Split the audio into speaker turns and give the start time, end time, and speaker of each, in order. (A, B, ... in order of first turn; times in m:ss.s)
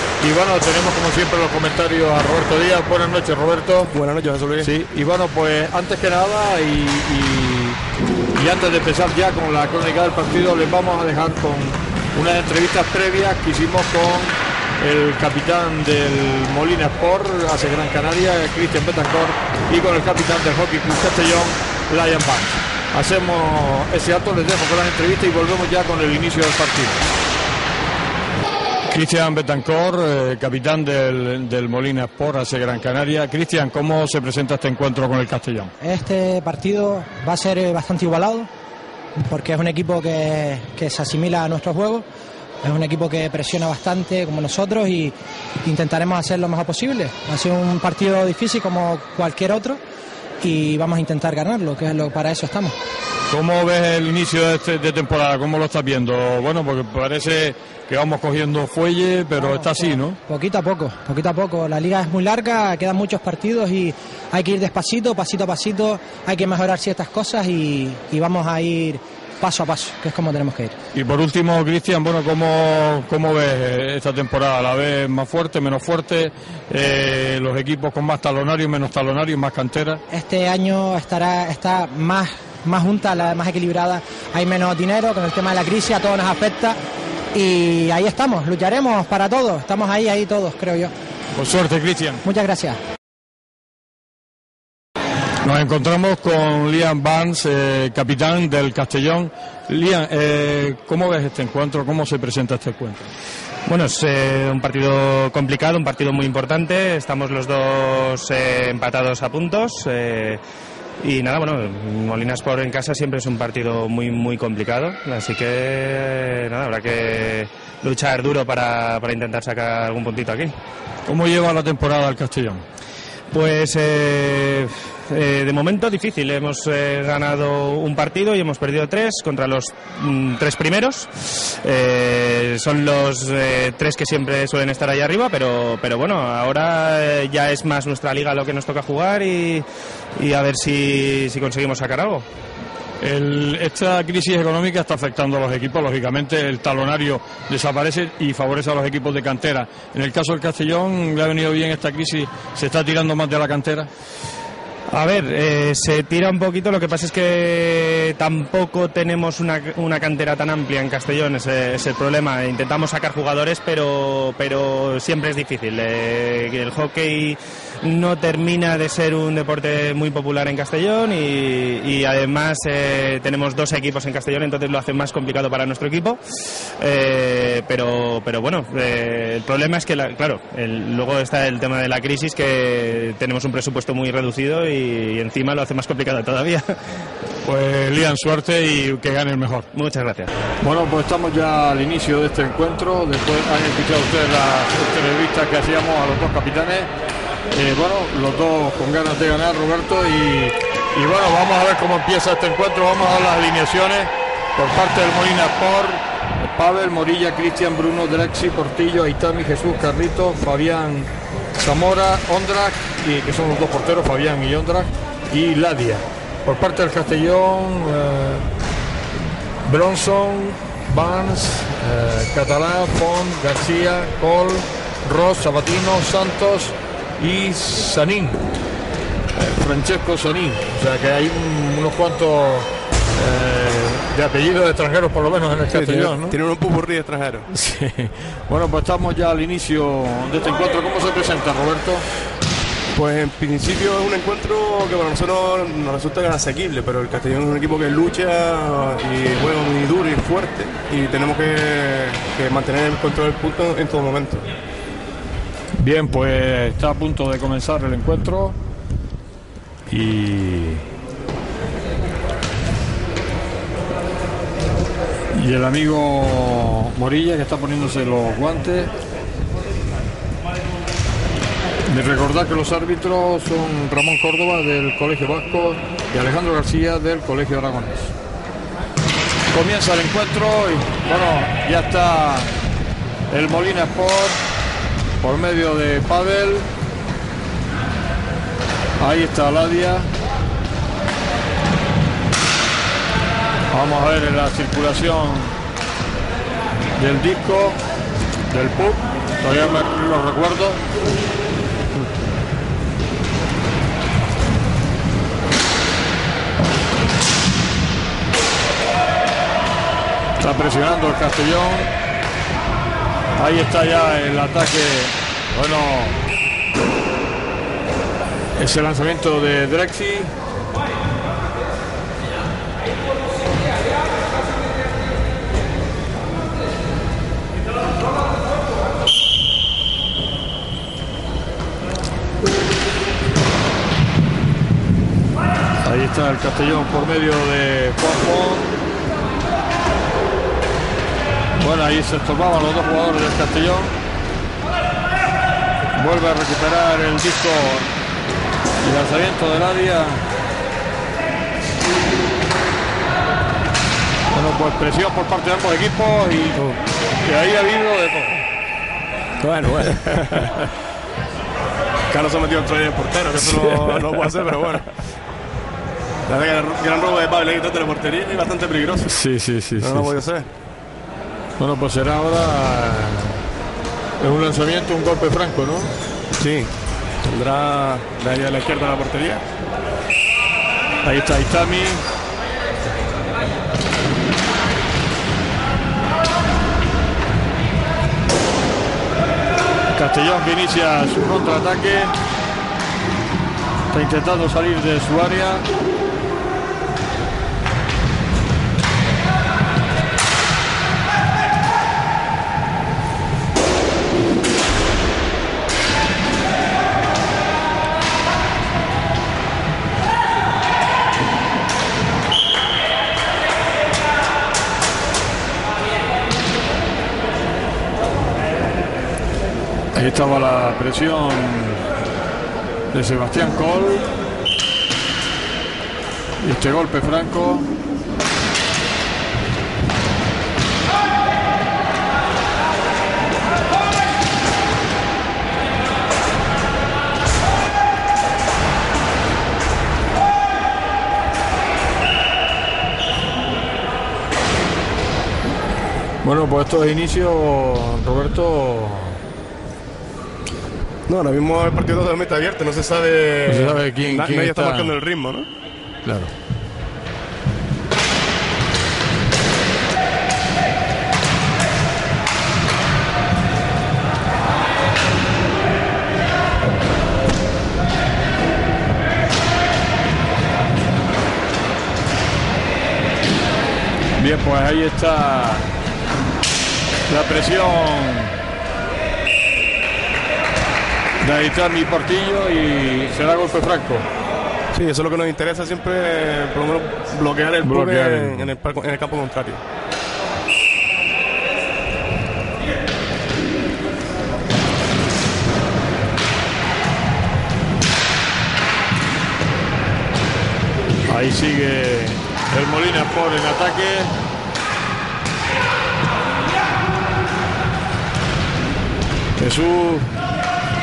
0:00.2-0:03.9 A
0:03.9-0:04.7 B
0:04.6-0:07.8 A
0:08.4-0:27.0 A
0:28.9-0:35.7 A
0:35.8-0:38.5 C
0:39.2-0:42.1 C
0:42.6-0:49.8 C
0:50.4-0:52.8 C
0:53.3-1:00.2 A
0:59.4-1:10.8 C
1:11.0-1:20.0 A
1:20.1-1:26.8 C
1:27.3-1:30.9 C
1:31.4-1:32.2 A
1:32.2-1:32.8 C
1:35.4-1:43.1 A
1:43.7-1:50.4 D
1:51.0-2:00.5 D
2:01.1-2:02.6 A
2:03.3-2:19.7 D
2:20.2-2:22.3 D
2:23.0-2:33.9 A
2:34.9-2:56.2 D
2:56.8-3:06.8 D
3:07.4-3:09.7 A
3:09.7-3:10.3 D
3:10.6-3:16.9 A
3:17.5-3:38.5 A
3:39.6-3:48.4 A
3:49.4-3:56.4 A
3:55.7-3:57.5 B
3:57.5-4:02.1 A
4:03.0-4:14.5 B
4:15.8-4:18.6 A
4:19.9-4:20.8 A
4:25.3-4:28.9 A
4:31.9-4:38.1 A
4:39.5-4:42.5 A
4:43.3-4:44.4 A
4:45.2-4:46.7 A
4:49.0-4:50.1 A
4:53.7-4:55.6 A
4:57.0-4:57.8 A
4:58.5-5:00.8 A
5:10.4-5:11.9 A
5:13.4-5:16.3 A
5:18.6-5:20.4 A
5:35.8-5:38.8 A
5:41.6-5:44.0 A
5:46.0-5:47.9 A
5:48.8-5:50.2 A
5:54.3-5:58.4 A
5:59.4-6:00.5 B
5:59.6-6:00.7 A
6:02.1-6:04.9 B
6:03.4-6:04.2 A
6:06.3-6:09.2 B
6:09.1-6:10.1 A
6:09.8-6:10.5 B
6:11.6-6:13.4 A
6:14.2-6:15.9 A
6:16.4-6:16.7 B
6:17.2-6:19.4 B
6:21.0-6:22.0 A
6:30.0-6:32.2 A
6:33.9-6:35.7 A
6:59.9-7:01.8 A
7:02.9-7:04.1 A
7:06.4-7:07.7 A
7:26.2-7:29.2 A
7:31.1-7:35.5 B
7:33.5-7:34.9 A
7:36.1-7:36.3 A
7:54.2-7:55.7 A
7:57.1-7:58.4 A
8:01.2-8:04.1 A
8:04.7-8:09.6 B
8:07.6-8:08.5 A
8:21.1-8:24.1 A
8:29.4-8:30.1 A